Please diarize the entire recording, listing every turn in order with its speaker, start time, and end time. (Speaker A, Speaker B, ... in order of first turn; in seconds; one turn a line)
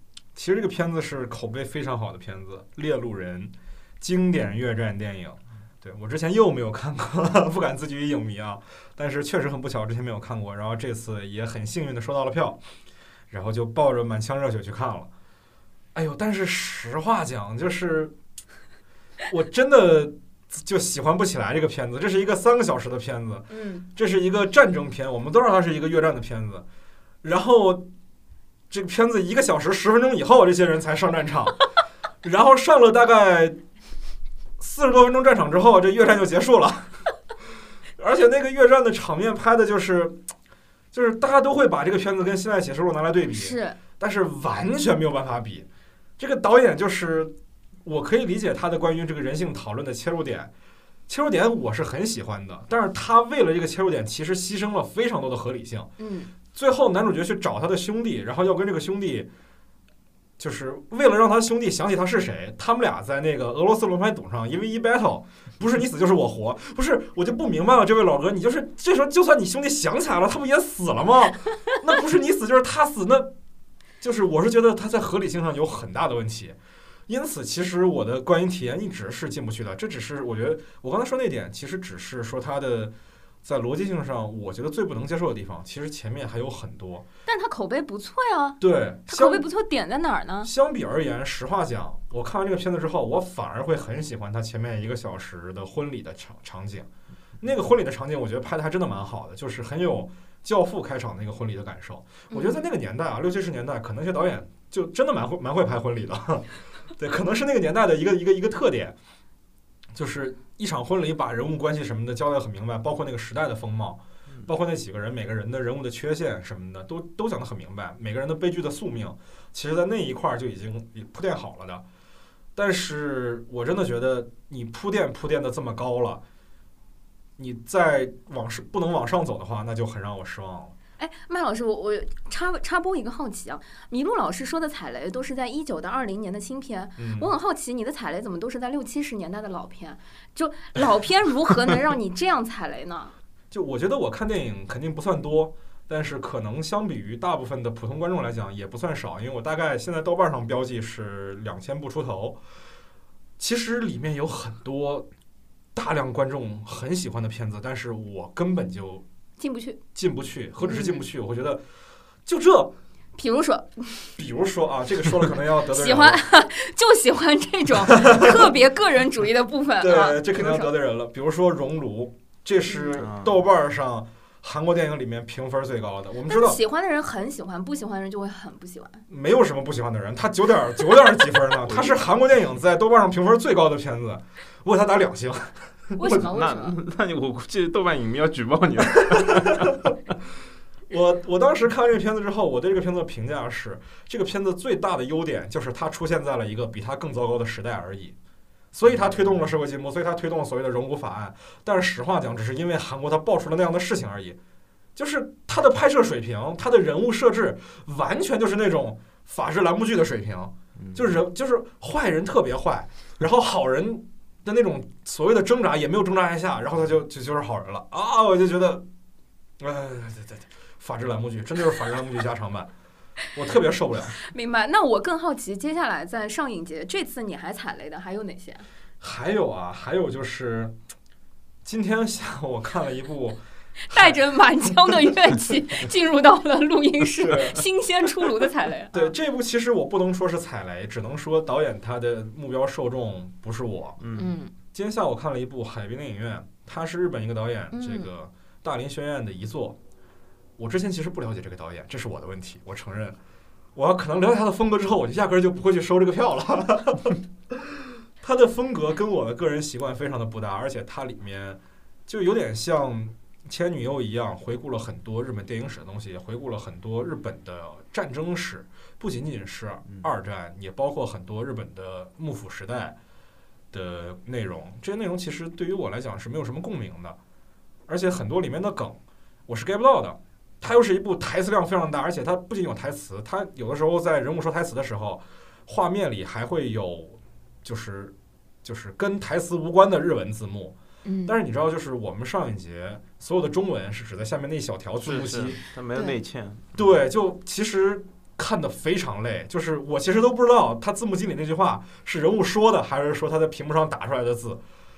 Speaker A: 0.3-12.6
Speaker A: 13.3-15.1
Speaker A: 15.9-18.1
Speaker A: 19.3-26.6
Speaker B: 23.5-23.8
Speaker A: 27.2-27.9
Speaker A: 28.7-31.6
Speaker A: 32.2-33.6
Speaker A: 34.6-37.0
Speaker A: 38.0-40.2
Speaker A: 40.9-45.7
Speaker B: 43.3-43.8
Speaker A: 46.2-50.5
Speaker A: 51.1-55.9
Speaker B: 56.0-56.3
Speaker A: 56.5-59.3
Speaker A: 60.4-73.3
Speaker A: 74.0-76.6
Speaker A: 77.1-87.0
Speaker B: 87.3-90.5
Speaker A: 88.6-89.5
Speaker A: 90.4-96.9
Speaker A: 97.4-109.0
Speaker B: 102.3-102.6
Speaker A: 109.9-121.8
Speaker A: 122.5-126.2
Speaker A: 127.4-130.7
Speaker B: 131.0-143.1
Speaker A: 137.0-137.3
Speaker A: 143.5-152.4
Speaker A: 153.4-155.1
Speaker A: 155.7-159.0
Speaker B: 159.4-159.8
Speaker A: 159.9-161.6
Speaker B: 160.6-161.0
Speaker A: 162.2-162.7
Speaker B: 163.2-164.2
Speaker A: 164.2-166.2
Speaker B: 165.7-170.7
Speaker A: 167.9-168.5
Speaker A: 169.8-176.6
Speaker B: 172.7-172.9
Speaker C: 172.9-173.4
Speaker B: 176.3-179.0
Speaker A: 179.1-186.2
Speaker C: 181.6-182.0
Speaker B: 186.0-186.8
Speaker C: 186.1-189.9
Speaker A: 189.3-189.7
Speaker A: 190.9-198.2
Speaker A: 198.7-204.4
Speaker C: 198.9-199.2
Speaker A: 204.9-218.8
Speaker C: 210.8-211.2
Speaker A: 219.6-222.7
Speaker A: 223.3-224.2
Speaker B: 224.2-228.6
Speaker A: 229.0-230.8
Speaker A: 231.6-234.2
Speaker B: 233.9-239.1
Speaker A: 237.0-237.7
Speaker A: 238.9-244.0
Speaker C: 244.0-244.3
Speaker B: 244.1-244.5
Speaker A: 244.7-249.8
Speaker B: 247.7-248.1
Speaker A: 250.6-253.2
Speaker A: 253.7-273.0
Speaker A: 273.7-277.2
Speaker A: 277.9-295.6
Speaker B: 291.0-291.4
Speaker C: 295.0-296.9
Speaker A: 296.8-304.6